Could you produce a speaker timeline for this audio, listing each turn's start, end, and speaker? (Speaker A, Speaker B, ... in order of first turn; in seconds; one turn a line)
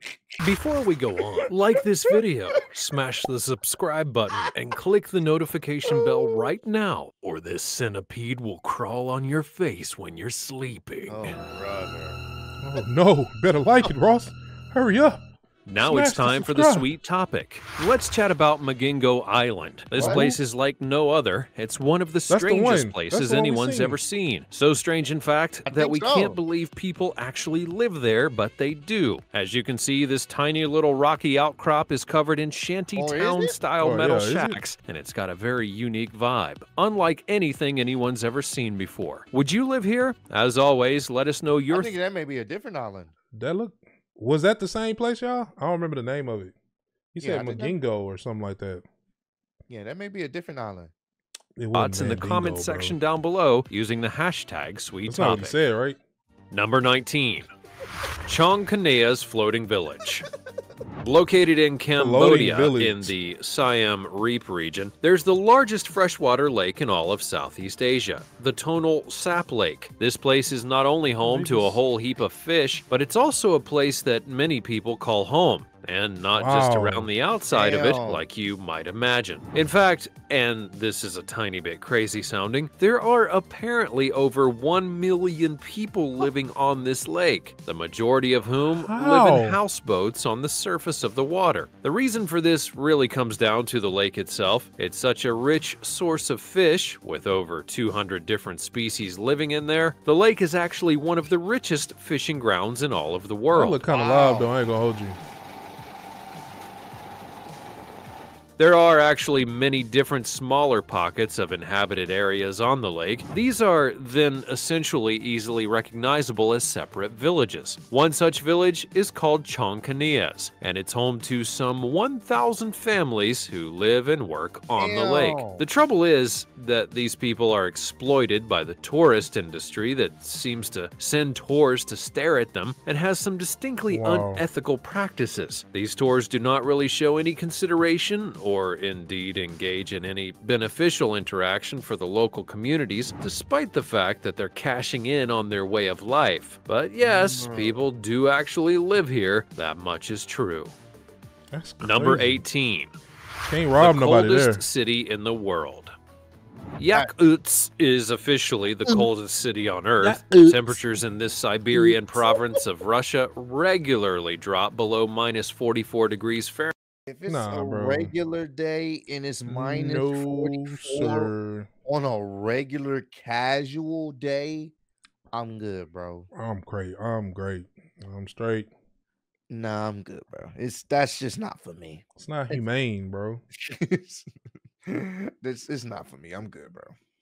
Speaker A: 0.4-11.4
Speaker B: 5.9-6.5
Speaker B: 11.1-12.2
Speaker C: 12.6-15.2
Speaker A: 15.7-41.9
Speaker C: 15.8-16.9
Speaker C: 19.9-20.3
Speaker B: 20.0-20.4
Speaker C: 22.3-24.0
Speaker B: 25.6-26.4
Speaker B: 32.9-33.5
Speaker C: 33.8-34.6
Speaker B: 41.7-43.1
Speaker C: 43.3-46.5
Speaker C: 47.1-48.8
Speaker B: 47.2-47.7
Speaker B: 49.7-50.9
Speaker C: 51.6-53.0
Speaker A: 51.7-55.5
Speaker C: 55.1-56.0
Speaker A: 56.5-57.5
Speaker A: 58.2-60.3
Speaker A: 61.0-103.8
Speaker C: 62.0-63.1
Speaker C: 71.2-71.7
Speaker C: 76.4-77.1
Speaker B: 77.5-78.2
Speaker C: 88.7-89.6
Speaker C: 103.5-105.2
Speaker B: 103.9-104.5
Speaker A: 108.6-150.7
Speaker B: 124.8-125.6
Speaker C: 133.9-134.4
Speaker B: 147.0-147.8
Speaker C: 151.5-152.4
Speaker A: 151.8-152.9
Speaker C: 153.4-154.6
Speaker A: 153.8-155.9
Speaker A: 156.8-166.7
Speaker B: 160.0-160.8
Speaker B: 161.7-162.6
Speaker B: 167.1-171.3
Speaker C: 167.3-168.1
Speaker C: 169.5-171.7
Speaker B: 171.8-174.7
Speaker B: 175.3-176.3
Speaker C: 176.3-178.7
Speaker B: 179.5-182.6
Speaker C: 182.2-183.4
Speaker B: 183.6-184.2
Speaker B: 184.8-186.9